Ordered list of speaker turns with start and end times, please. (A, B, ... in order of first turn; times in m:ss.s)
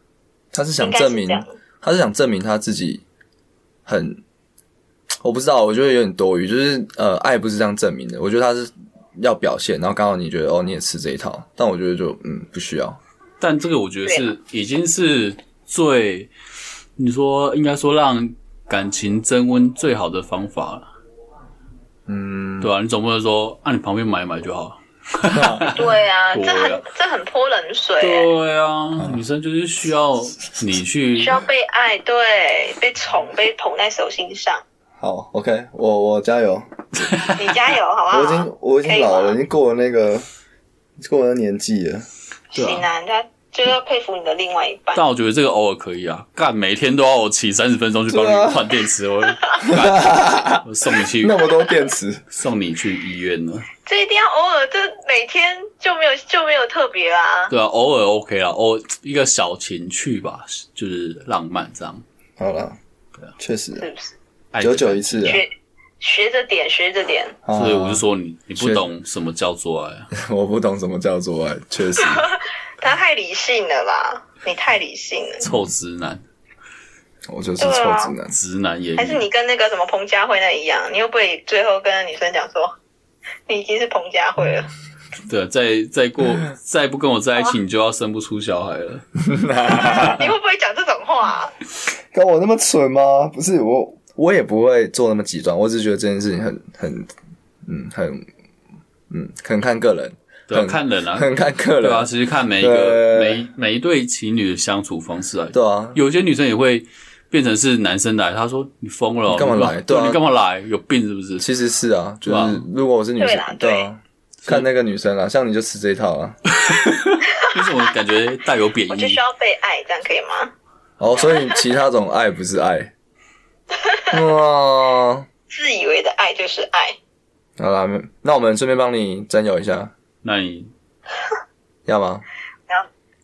0:00.5-0:03.0 A
0:00.8-0:01.5 B
0:03.9-0:04.2 A
0:05.2-0:13.0 A
0:13.4-0:16.3 C
0:17.0-0:20.9 C
0:22.1-0:22.7 A
0:22.6-0:26.8 C
0:25.3-0:25.7 A
0:25.7-0:28.3 B
0:28.0-0:31.4 C
0:31.2-0:34.6 B
0:35.0-0:37.1 A
0:37.0-0:37.4 C
0:37.4-0:39.4 B
0:38.1-0:40.3 A
0:41.0-0:42.1 A
0:42.5-0:45.0 B
0:42.6-0:42.9 C
0:44.9-0:51.4 C
0:48.1-0:48.7 A
0:49.6-0:50.6 A
0:51.2-0:52.2 A
0:52.3-0:53.7 C
0:53.9-0:57.5 B
0:57.5-1:02.0 C
1:02.4-1:02.8 A
1:03.4-1:03.9 A
1:03.8-1:04.1 B
1:04.5-1:05.2 C
1:04.6-1:05.4 A
1:05.2-1:07.4 B
1:07.4-1:08.0 A
1:07.5-1:10.1 C
1:08.6-1:08.9 A
1:10.1-1:12.3 A
1:12.0-1:15.5 B
1:15.4-1:16.2 C
1:17.3-1:18.4 A
1:17.6-1:18.1 B
1:18.3-1:19.2 C
1:19.0-1:22.7 B
1:23.5-1:24.7 B
1:25.3-1:29.0 C
1:29.2-1:30.3 A
1:29.7-1:31.6 B
1:32.1-1:37.1 A
1:37.7-1:38.2 A
1:39.1-1:43.4 A
1:40.5-1:41.3 C
1:41.8-1:51.5 C
1:45.5-1:46.0 A
1:49.3-1:50.2 A
1:51.4-1:56.4 A
1:52.3-1:52.6 C
1:53.2-1:53.9 B
1:56.5-1:59.2 C
1:58.9-2:00.5 B
2:01.0-2:02.9 A
2:01.3-2:01.6 B
2:03.7-2:04.2 B
2:04.1-2:05.3 A
2:05.5-2:07.0 B
2:07.6-2:09.9 A
2:10.2-2:10.7 C
2:11.9-2:12.2 A